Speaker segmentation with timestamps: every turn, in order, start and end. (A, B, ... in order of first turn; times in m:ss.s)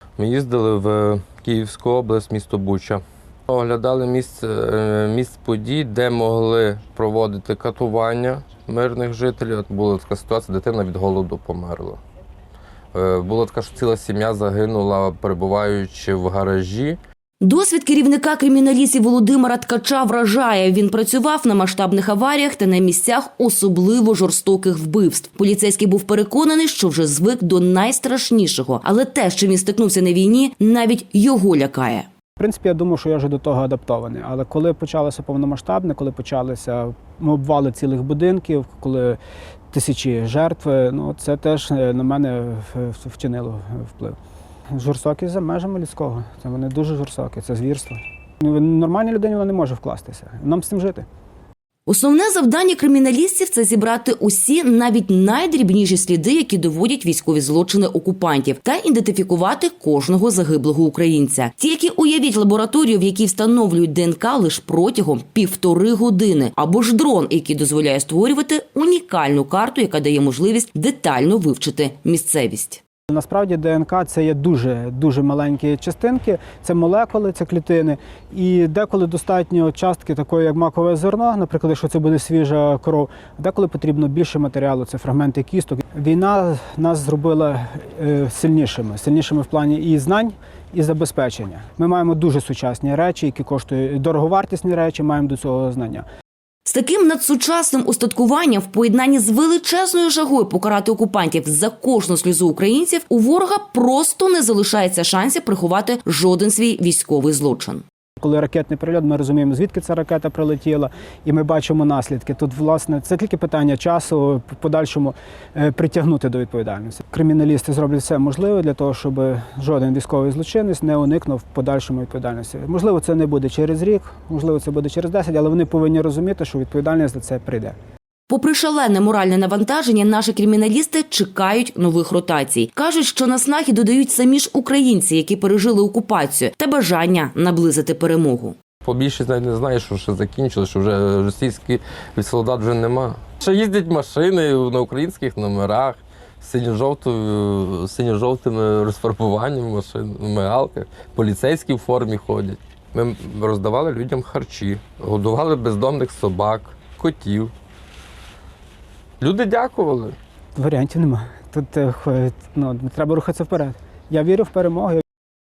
0:00.2-0:12.0 A
0:12.9-0:17.0 A
0:17.4-0:32.1 B
0:32.4-0:39.2 C
0:39.7-0:44.2 C
0:44.7-0:51.0 C
0:51.9-1:12.8 B
1:13.1-1:36.0 C
1:36.6-1:47.8 B
1:48.2-2:07.8 C
2:08.3-2:18.6 B
2:18.8-2:37.5 A
2:39.2-2:40.2 A
2:40.5-2:45.0 C